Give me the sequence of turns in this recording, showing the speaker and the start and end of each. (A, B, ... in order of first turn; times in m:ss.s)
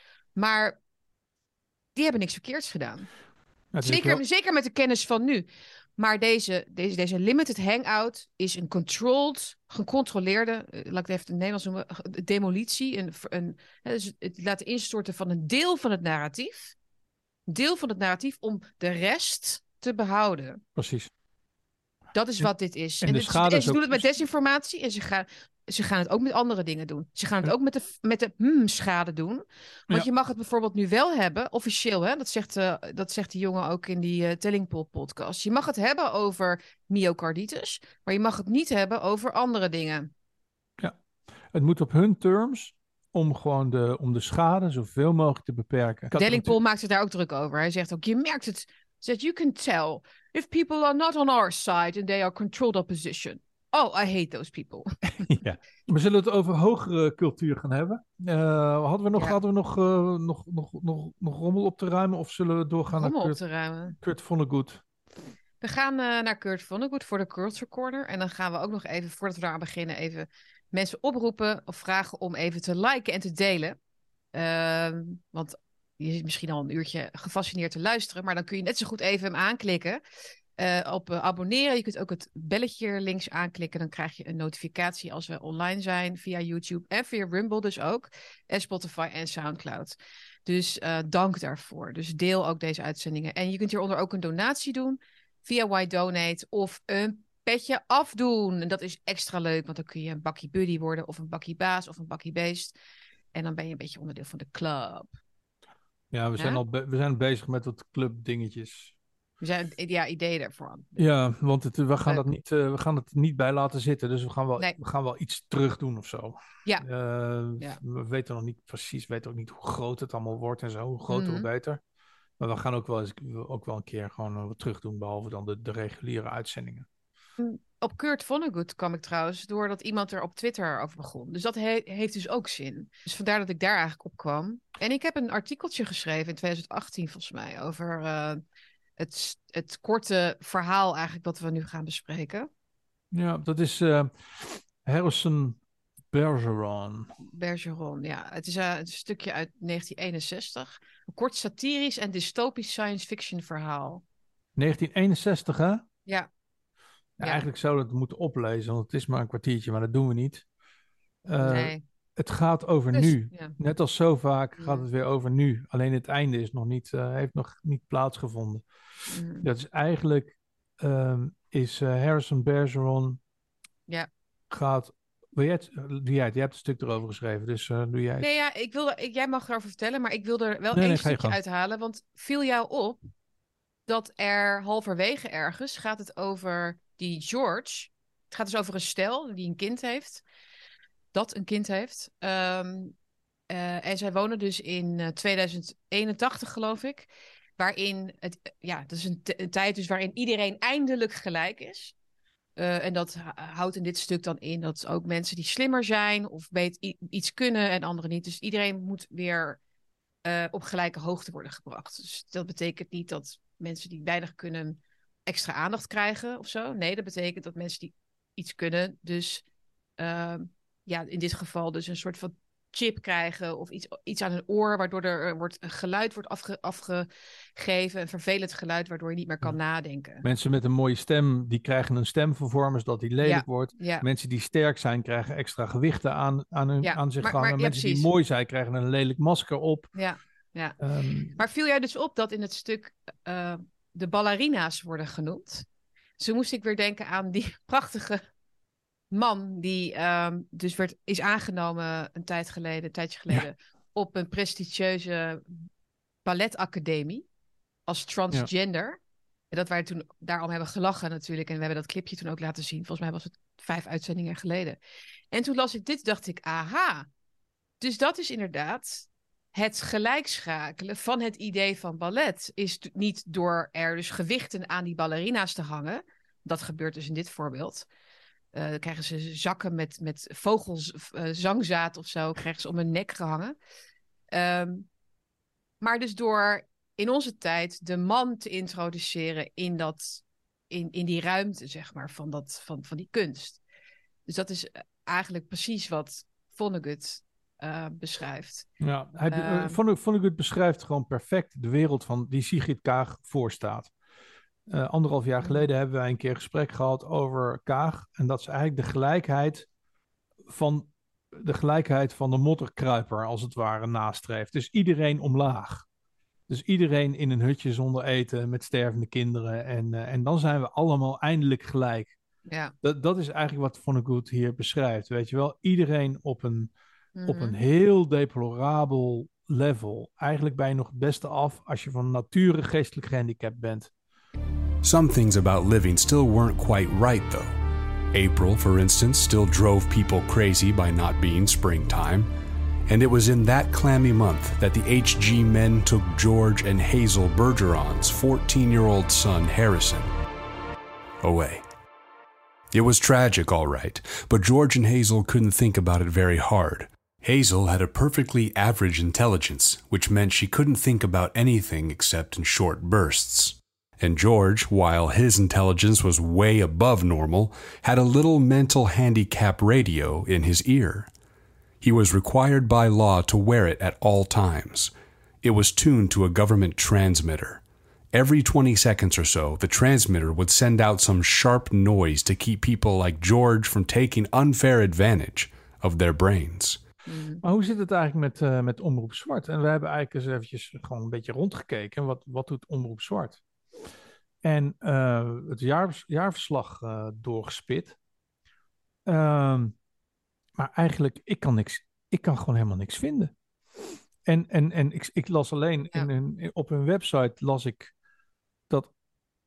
0:00.4-0:00.8 A
0:02.0-0:03.1 A
0:03.7-0:04.2 B
0:03.8-0:05.5 A
0:06.0-0:16.8 A
0:17.5-0:20.6 A
0:20.8-0:21.1 B
0:22.1-0:40.1 A
0:23.0-0:24.1 B
0:41.5-0:46.6 B
0:46.1-0:55.3 A
0:55.3-1:03.4 B
1:02.9-1:04.0 A
1:04.0-1:04.8 B
1:05.6-1:13.8 A
1:14.3-1:20.0 A
1:20.6-1:42.7 A
1:43.3-1:45.1 A
1:46.1-1:48.9 B
1:49.4-1:51.0 A
1:51.0-2:01.8 B
2:01.1-2:01.5 A
2:02.4-2:06.9 B
2:07.4-2:18.4 A
2:19.0-2:22.5 A
2:23.1-2:25.6 B
2:26.1-2:27.1 B
2:27.2-2:34.0 A
2:34.6-2:35.8 B
2:37.2-2:40.4 B
2:41.2-2:48.6 B
2:41.4-2:41.8 A
2:42.9-2:43.6 A
2:44.6-2:44.8 A
2:49.1-2:49.5 A
2:49.4-2:53.2 B
2:54.5-2:58.3 B
2:58.2-3:03.0 A
3:00.7-3:01.4 B
3:03.9-3:10.2 A
3:11.1-3:13.0 A
3:13.5-3:21.9 A
3:22.6-3:29.6 A
3:30.2-3:39.4 A
3:40.0-3:50.3 A
3:50.2-3:59.9 B
3:53.2-3:54.0 A
3:56.8-3:58.1 A
4:00.0-4:00.8 A
4:00.8-4:01.4 B
4:01.4-4:05.7 A
4:06.2-4:08.2 A
4:09.1-4:15.7 A
4:16.2-4:17.3 A
4:17.9-4:19.0 A
4:19.5-4:24.8 A
4:25.3-4:27.1 A
4:27.8-4:37.9 A
4:38.5-4:43.6 A
4:44.3-4:44.9 A
4:45.8-4:53.6 A
4:54.3-4:58.7 A
4:58.8-5:03.9 B
4:59.3-4:59.8 A
5:04.7-5:09.7 B
5:10.5-5:15.9 B
5:16.5-5:22.2 B
5:22.5-5:22.7 A
5:22.8-5:26.7 B
5:27.2-5:27.6 A
5:27.2-5:33.9 B
5:34.8-5:37.5 C
5:38.1-5:42.3 C
5:42.9-5:50.1 C
5:51.2-5:51.6 C
5:52.7-6:11.1 C
6:11.8-6:17.6 C
6:18.1-6:26.8 C
6:27.1-6:27.4 A
6:27.4-6:33.4 B
6:34.4-6:38.0 B
6:39.1-6:39.8 B
6:40.6-6:43.3 B
6:44.2-6:47.9 B